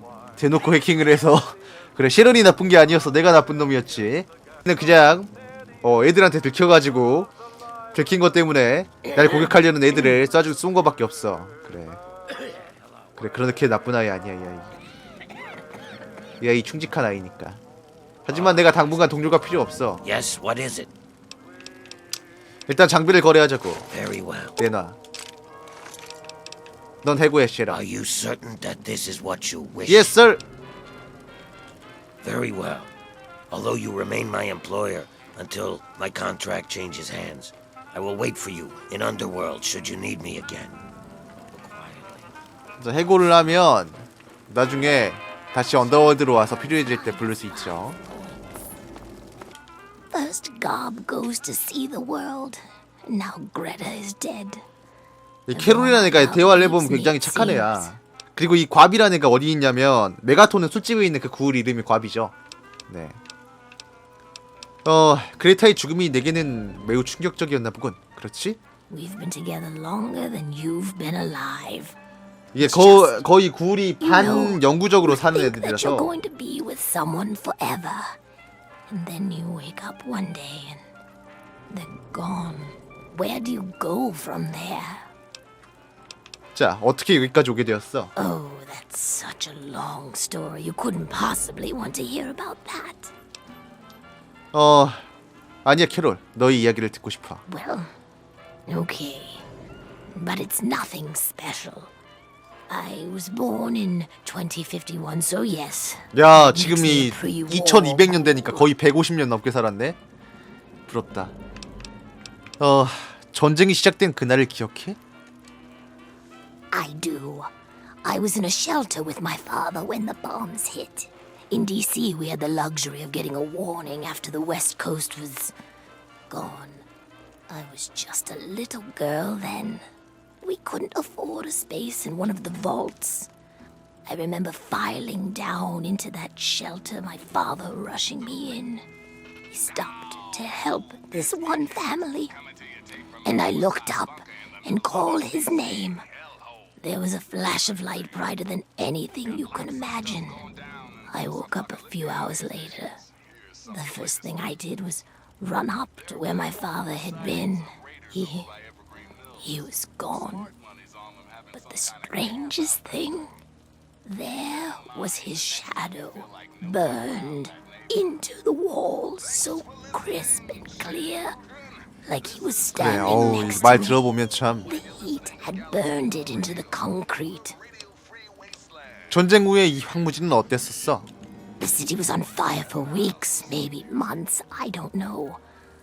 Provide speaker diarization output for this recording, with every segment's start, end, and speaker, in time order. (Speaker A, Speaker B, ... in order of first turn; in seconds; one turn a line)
Speaker A: 0.4-5.3
Speaker A: 5.8-7.3
Speaker A: 7.9-12.0
Speaker A: 13.2-14.7
Speaker A: 16.4-17.6
Speaker A: 18.2-20.0
Speaker B: 18.3-19.0
Speaker B: 20.0-20.9
Speaker A: 22.7-23.9
Speaker B: 23.9-24.6
Speaker A: 24.6-24.9
Speaker A: 27.0-27.8
Speaker B: 27.7-30.1
Speaker A: 29.8-30.4
Speaker B: 32.2-32.9
Speaker B: 33.5-40.8
Speaker B: 41.5-42.3
Speaker A: 42.8-48.0
Speaker C: 46.4-48.5
Speaker C: 50.1-54.6
Speaker A: 55.5-62.3
Speaker C: 55.5-57.9
Speaker A: 62.9-63.2
Speaker A: 64.8-68.6
Speaker C: 68.9-72.0
Speaker A: 72.5-76.1
Speaker C: 72.6-73.2
Speaker C: 74.0-78.2
Speaker C: 78.9-80.8
Speaker C: 81.7-85.1
Speaker A: 86.5-88.1
Speaker C: 88.2-93.1
Speaker A: 94.5-95.0
Speaker A: 95.6-97.4
Speaker C: 97.5-97.9
Speaker C: 98.7-99.4
Speaker C: 100.1-101.9
Speaker C: 102.7-108.7
Speaker A: 106.1-110.0
Speaker A: 110.9-111.3
Speaker A: 112.6-115.0
Speaker C: 116.7-117.5
Speaker C: 118.0-125.5
Speaker C: 126.3-126.8
Speaker C: 127.5-129.8
Speaker C: 130.4-133.3
Speaker C: 134.1-138.8
Speaker C: 139.5-142.3
Speaker C: 143.2-146.0
Speaker C: 146.8-150.4
Speaker C: 151.1-153.0
Speaker C: 153.7-158.5
Speaker C: 159.4-160.5
Speaker C: 161.5-163.3
Speaker C: 164.0-171.3
Speaker C: 172.0-174.0
Speaker A: 172.8-174.7
Speaker C: 174.7-177.6
Speaker A: 179.1-181.1
Speaker C: 181.6-185.4